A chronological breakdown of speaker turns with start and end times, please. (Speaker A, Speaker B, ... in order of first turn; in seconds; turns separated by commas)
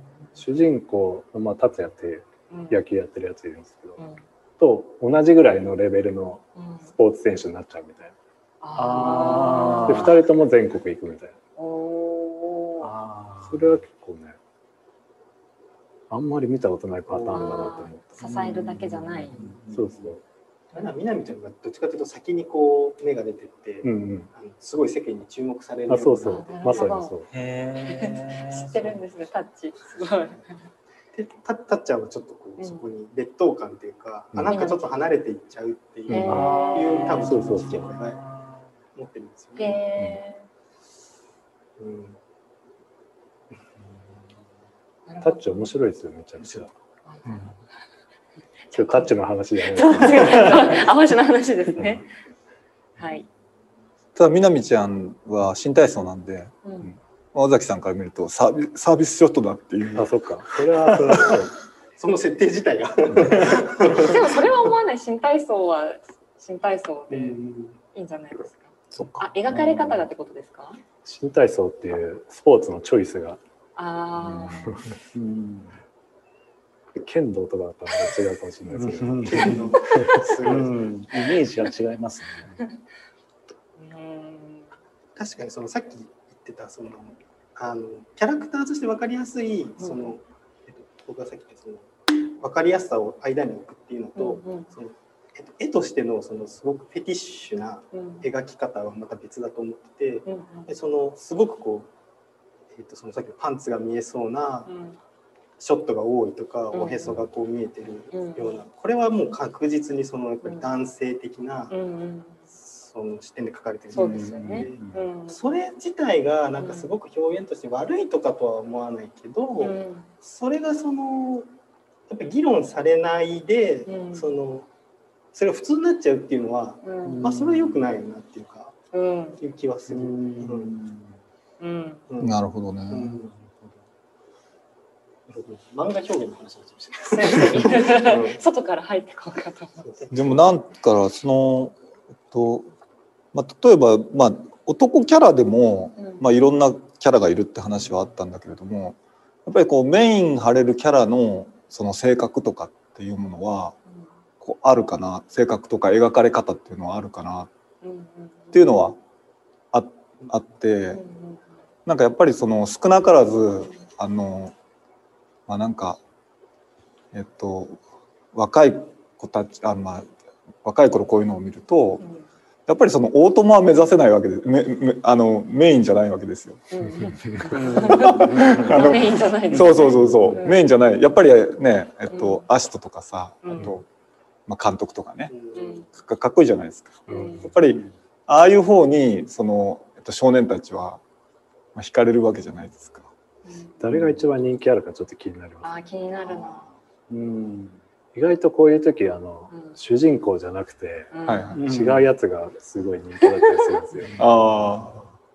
Speaker A: 0.3-4.0, Speaker B: 2.5-2.8, Speaker A: 4.6-8.1, Speaker B: 6.6-6.8, Speaker B: 8.6-10.1, Speaker C: 8.8-10.1, Speaker A: 9.0-11.4, Speaker B: 11.6-12.9, Speaker C: 12.8-13.8, Speaker A: 13.4-14.4, Speaker A: 16.1-20.2, Speaker D: 17.2-17.6, Speaker B: 17.3-19.4, Speaker C: 18.4-19.9, Speaker D: 20.7-27.0, Speaker A: 23.8-24.3, Speaker A: 25.9-27.3, Speaker B: 26.2-27.2, Speaker C: 27.3-29.0, Speaker B: 27.9-30.7, Speaker D: 31.1-38.2, Speaker B: 32.6-32.9, Speaker A: 34.3-34.6, Speaker B: 34.5-34.9, Speaker B: 36.1-37.8, Speaker A: 36.1-37.9, Speaker C: 36.2-38.6, Speaker D: 38.9-39.8, Speaker B: 39.6-40.5, Speaker A: 40.0-40.2, Speaker D: 41.8-42.2, Speaker B: 45.1-45.7, Speaker A: 45.2-46.7, Speaker B: 47.1-47.5, Speaker E: 47.2-47.5, Speaker B: 48.7-49.1, Speaker A: 48.8-50.8, Speaker B: 49.6-52.1, Speaker B: 53.0-53.3, Speaker E: 54.1-56.5, Speaker B: 56.6-56.9, Speaker E: 57.3-61.4, Speaker A: 59.9-61.6, Speaker D: 62.0-64.5, Speaker B: 64.0-67.4, Speaker D: 67.1-67.8, Speaker B: 67.9-70.8, Speaker A: 71.0-73.4, Speaker B: 73.8-74.8, Speaker A: 74.3-74.9, Speaker C: 75.1-75.8, Speaker A: 76.9-80.2, Speaker C: 78.8-82.6, Speaker D: 79.3-80.9, Speaker B: 83.8-84.7, Speaker D: 85.2-101.9, Speaker B: 89.8-90.1, Speaker B: 94.2-94.7, Speaker B: 97.9-98.2, Speaker B: 100.2-100.7, Speaker D: 102.7-104.7, Speaker B: 104.7-105.0, Speaker D: 105.6-111.7, Speaker B: 106.7-107.2, Speaker B: 108.1-108.6, Speaker B: 110.4-110.7, Speaker B: 111.7-112.4, Speaker D: 112.6-121.5, Speaker B: 113.9-115.4, Speaker C: 114.2-115.0, Speaker B: 116.6-116.9, Speaker B: 119.6-120.1, Speaker D: 122.1-124.7, Speaker B: 123.9-124.3, Speaker D: 125.3-128.8, Speaker B: 126.8-127.3, Speaker C: 127.0-127.8, Speaker B: 128.9-129.4, Speaker D: 129.4-130.7, Speaker C: 129.9-131.1, Speaker B: 131.6-132.0, Speaker D: 132.1-133.5, Speaker E: 132.2-133.2, Speaker D: 135.3-138.4, Speaker B: 137.1-139.9, Speaker D: 139.8-140.2, Speaker E: 140.1-141.8, Speaker E: 142.3-142.7, Speaker E: 143.3-153.8, Speaker B: 146.0-146.3, Speaker E: 154.4-157.5, Speaker B: 157.8-158.7, Speaker E: 158.5-159.0, Speaker E: 159.7-161.0, Speaker B: 160.9-161.4, Speaker E: 161.8-164.5, Speaker E: 165.5-166.0, Speaker E: 167.1-167.8, Speaker E: 168.3-170.1, Speaker E: 170.6-172.0, Speaker B: 172.0-172.2, Speaker E: 172.7-176.7, Speaker B: 176.7-180.6, Speaker A: 176.8-178.7, Speaker C: 177.5-178.6, Speaker E: 177.7-183.8, Speaker A: 179.6-180.3, Speaker B: 182.1-182.4, Speaker B: 183.4-183.7, Speaker E: 184.5-191.0, Speaker D: 185.3-185.8, Speaker B: 185.5-185.8, Speaker B: 187.1-187.5, Speaker A: 187.1-187.5, Speaker E: 191.7-193.1, Speaker B: 193.4-193.8, Speaker A: 193.8-195.8, Speaker E: 193.9-194.2, Speaker B: 195.6-196.7, Speaker D: 196.2-196.7, Speaker A: 197.1-204.8, Speaker B: 199.5-199.8, Speaker B: 201.1-201.5, Speaker E: 201.3-201.7, Speaker C: 201.6-202.0, Speaker B: 203.2-203.8, Speaker E: 204.2-205.0